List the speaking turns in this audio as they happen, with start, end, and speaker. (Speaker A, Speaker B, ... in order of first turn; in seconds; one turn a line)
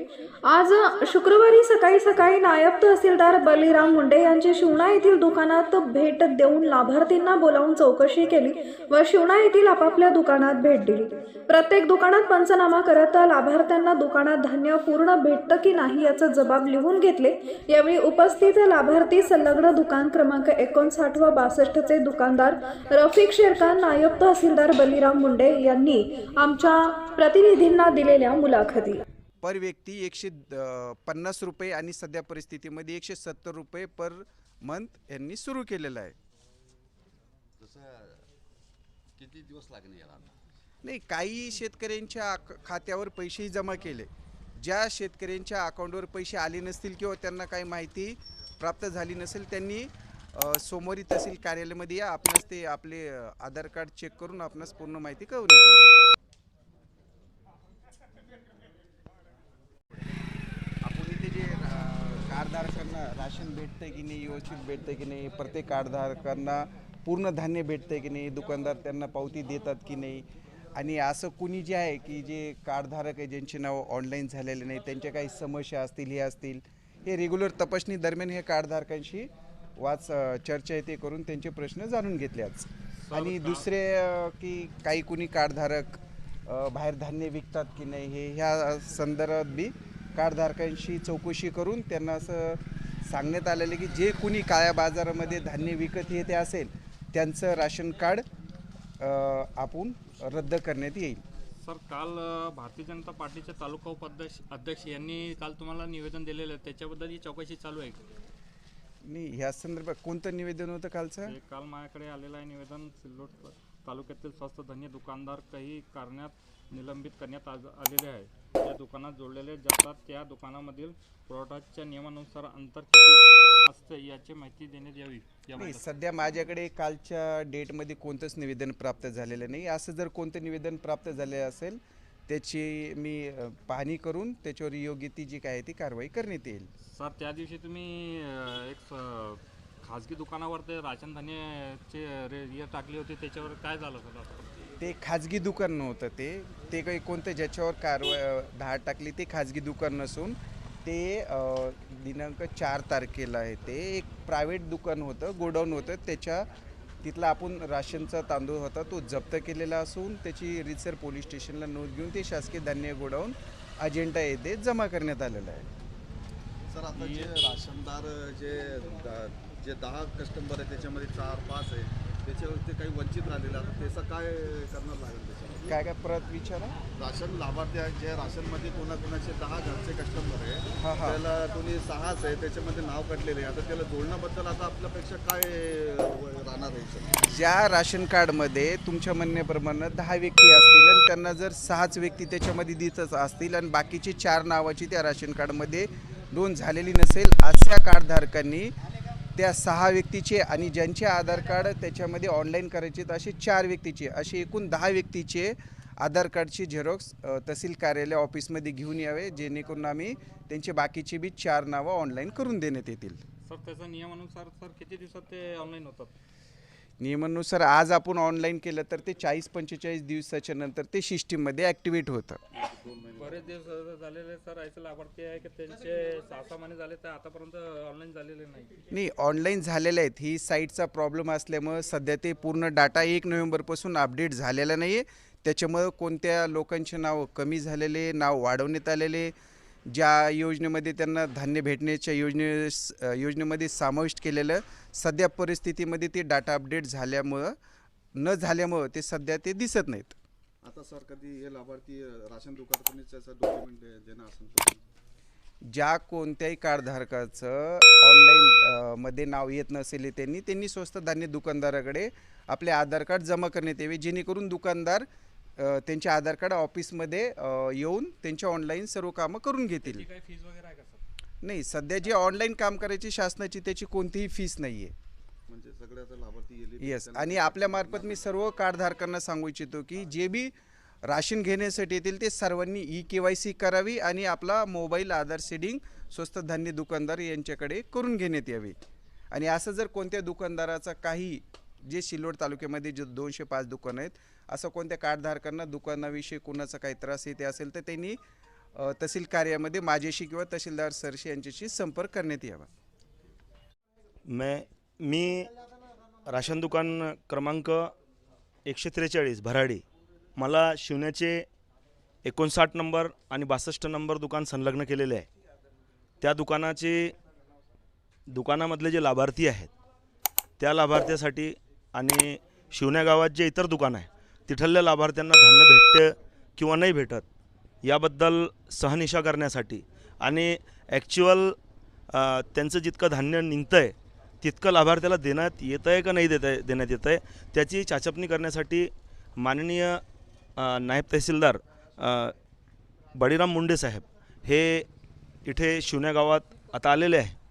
Speaker A: 0.5-29.0
Speaker B: 29.4-36.1
Speaker C: 37.6-38.2
Speaker C: 39.2-40.3
Speaker B: 40.8-55.9
Speaker B: 60.8-70.2
Speaker B: 70.8-98.2
Speaker B: 99.0-101.2
Speaker D: 101.6-108.0
Speaker B: 109.0-111.4
Speaker D: 111.3-125.7
Speaker B: 125.5-136.7
Speaker D: 136.9-144.6
Speaker B: 144.8-156.5
Speaker B: 157.0-165.7
Speaker C: 166.7-175.7
Speaker B: 175.7-176.8
Speaker C: 176.9-187.2
Speaker B: 180.8-181.2
Speaker B: 187.3-198.7
Speaker B: 199.3-213.2
Speaker D: 213.5-216.1
Speaker B: 217.0-222.4
Speaker C: 222.5-223.6
Speaker D: 223.2-228.7
Speaker B: 228.9-239.3
Speaker B: 239.9-247.5
Speaker B: 248.2-250.2
Speaker C: 250.6-254.8
Speaker B: 255.7-265.1
Speaker B: 265.6-270.1
Speaker D: 269.9-271.0
Speaker B: 271.4-274.9
Speaker C: 275.5-278.3
Speaker B: 276.8-280.5
Speaker B: 281.1-288.8
Speaker B: 289.3-298.2
Speaker B: 298.7-302.7
Speaker E: 304.2-305.5
Speaker E: 306.3-307.9
Speaker E: 308.6-309.8
Speaker E: 310.4-311.4
Speaker E: 312.2-315.3
Speaker E: 316.2-317.1
Speaker E: 318.3-319.7
Speaker E: 320.6-327.3
Speaker E: 327.8-331.6
Speaker E: 332.1-340.0
Speaker E: 340.6-342.3
Speaker E: 343.1-344.9
Speaker E: 345.4-347.4